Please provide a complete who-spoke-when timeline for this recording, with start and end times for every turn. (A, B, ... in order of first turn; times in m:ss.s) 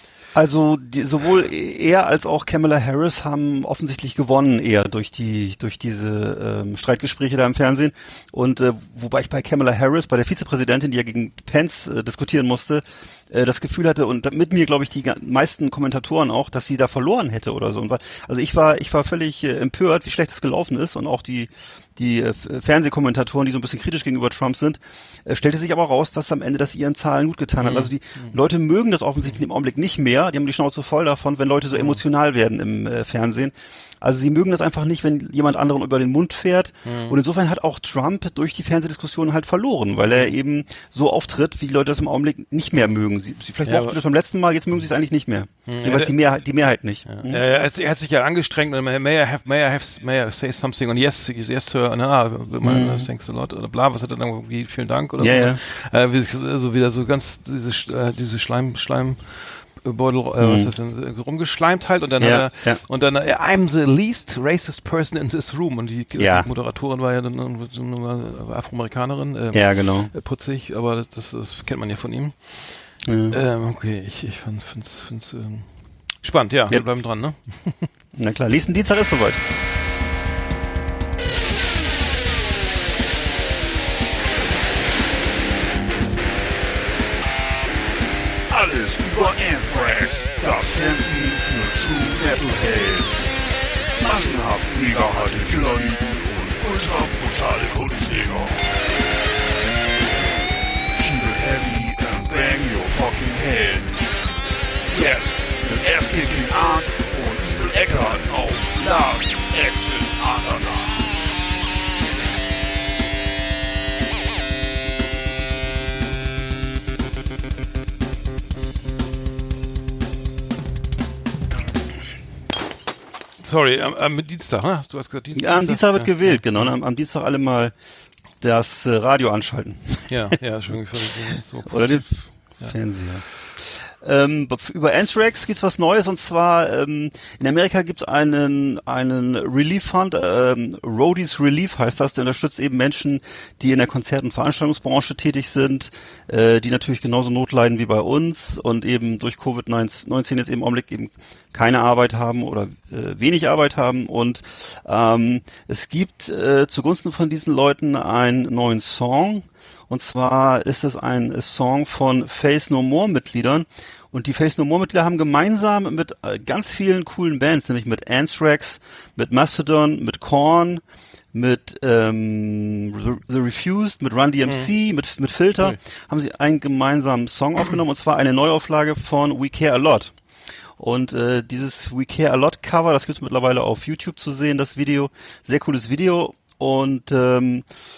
0:00.3-0:47.4 A
0:27.6-0:28.4 B
0:31.7-0:32.0 B
0:36.8-0:37.2 B
0:43.6-0:44.0 B
0:45.7-0:46.1 B
0:47.0-1:17.9 B
0:52.6-0:53.0 A
0:55.2-0:55.6 A
1:00.4-1:00.7 A
1:02.2-1:02.8 A
1:06.2-1:06.5 A
1:09.5-1:10.1 A
1:13.0-1:13.4 A
1:18.1-1:19.4 A
1:28.5-1:33.2 C
1:34.0-1:38.6 C
1:40.9-1:44.0 C
1:44.9-1:51.1 C
2:03.4-2:06.7 B
2:05.3-2:07.7 A
2:08.4-2:10.3 A
2:10.1-2:12.8 B
2:11.3-3:00.1 A
3:00.8-3:07.7 A